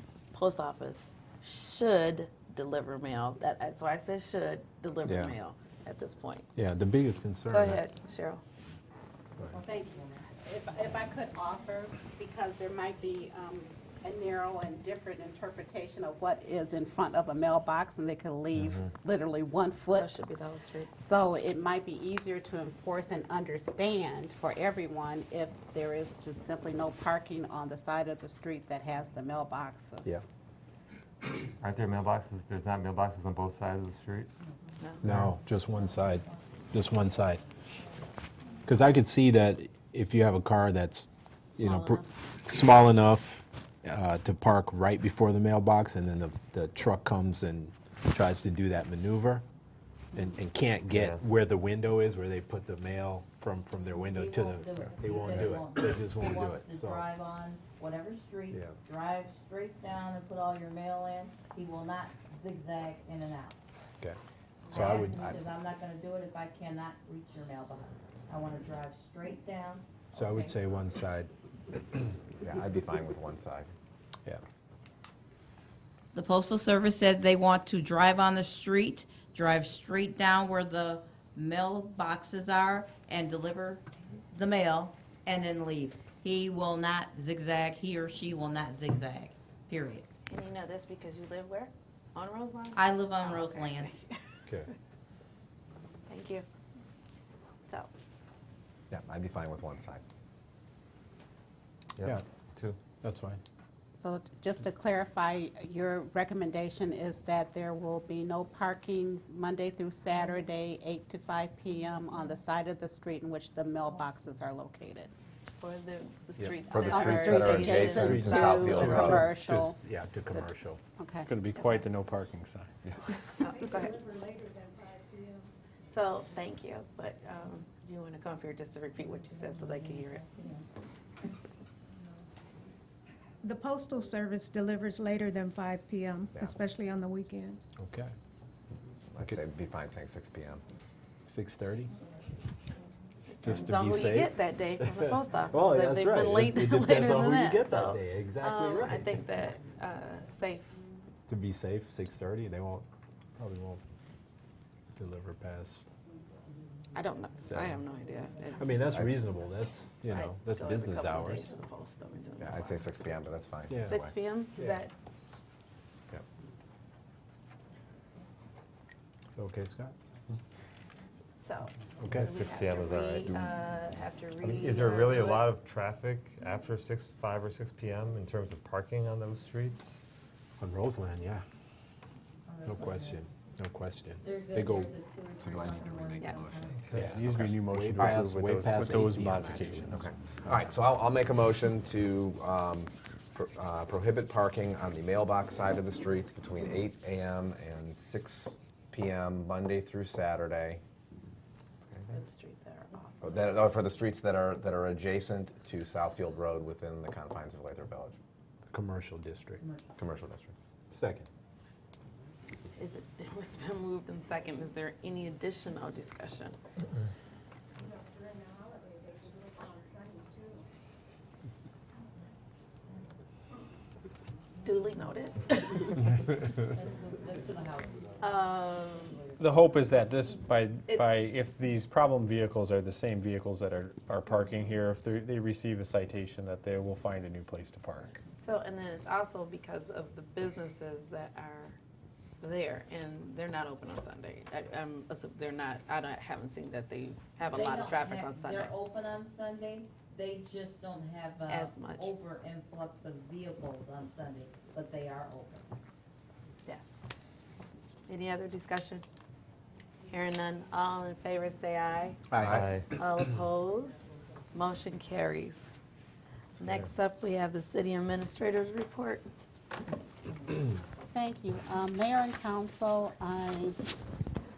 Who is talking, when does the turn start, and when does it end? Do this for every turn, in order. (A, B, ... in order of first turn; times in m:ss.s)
0:00.3-0:06.5 A
0:05.0-0:05.3 B
0:06.6-0:07.8 B
0:07.5-0:08.4 A
0:09.4-0:10.3 C
0:09.6-0:20.2 D
0:19.9-0:20.9 A
0:21.0-0:30.2 D
0:31.6-0:34.3 E
0:35.0-0:37.4 B
0:38.7-0:49.4 B
0:41.5-0:42.1 A
0:50.1-0:57.1 B
0:54.0-1:03.6 C
1:04.7-1:10.5 C
1:04.7-1:05.3 B
1:10.1-1:12.2 B
1:12.4-1:13.7 F
1:16.1-1:30.1 C
1:30.3-1:34.2 A
1:32.8-1:33.9 C
1:36.1-1:36.4 A
1:38.9-1:40.0 F
1:42.0-1:42.8 E
1:43.0-1:43.4 B
1:44.0-1:55.1 D
1:55.6-1:58.7 A
1:56.7-1:59.3 F
1:56.7-1:59.8 D
1:57.9-2:00.8 B
2:00.3-2:01.3 D
2:01.3-2:02.7 G
2:01.6-2:01.8 H
2:03.4-2:05.5 H
2:03.4-2:04.0 A
2:05.9-2:10.2 A
2:09.2-2:10.7 C
2:13.4-2:17.6 H
2:17.8-2:18.1 B
2:19.1-2:20.6 F
2:21.3-2:21.9 B
2:23.3-2:30.8 A
2:23.4-2:24.4 B
2:25.5-2:29.1 B
2:31.3-2:32.9 B
2:33.4-2:33.8 B
2:35.0-2:35.9 B
2:37.0-2:38.8 A
2:37.5-2:37.8 B
2:38.6-2:41.5 B
2:38.9-2:39.2 F
2:40.1-2:42.8 A
2:42.4-2:44.1 F
2:43.7-2:44.0 B
2:43.8-2:44.9 A
2:49.3-2:49.9 B
2:51.4-2:55.5 A
2:52.0-2:52.3 B
2:52.3-2:53.2 E
2:52.9-2:53.4 C
2:54.4-3:00.0 E
3:00.6-3:01.4 B
3:02.5-3:03.3 C
3:02.6-3:04.9 B
3:04.2-3:06.8 C
3:05.4-3:08.1 F
3:06.2-3:06.5 A
3:06.8-3:07.0 E
3:06.9-3:10.0 B
3:07.1-3:10.0 G
3:09.9-3:20.8 F
3:22.1-3:23.4 A
3:23.2-3:28.2 F
3:28.7-3:29.6 B
3:29.6-3:30.0 C
3:30.0-3:30.5 F
3:30.9-3:31.3 B
3:32.8-3:36.6 A
3:37.8-3:40.6 H
3:44.6-3:46.0 A
3:46.6-3:48.3 C
3:48.2-3:49.2 A
3:49.0-3:49.5 C
3:49.4-3:58.2 G
3:50.9-3:51.3 A
3:58.4-4:01.8 A
4:02.4-4:08.7 A
4:07.5-4:15.7 C
4:11.5-4:12.1 A
4:16.7-4:17.0 A
4:18.1-4:19.0 A
4:20.1-4:22.2 A
4:22.3-4:22.6 B
4:22.5-4:22.9 E
4:23.0-4:25.7 A
4:26.6-4:29.3 A
4:31.1-4:34.0 D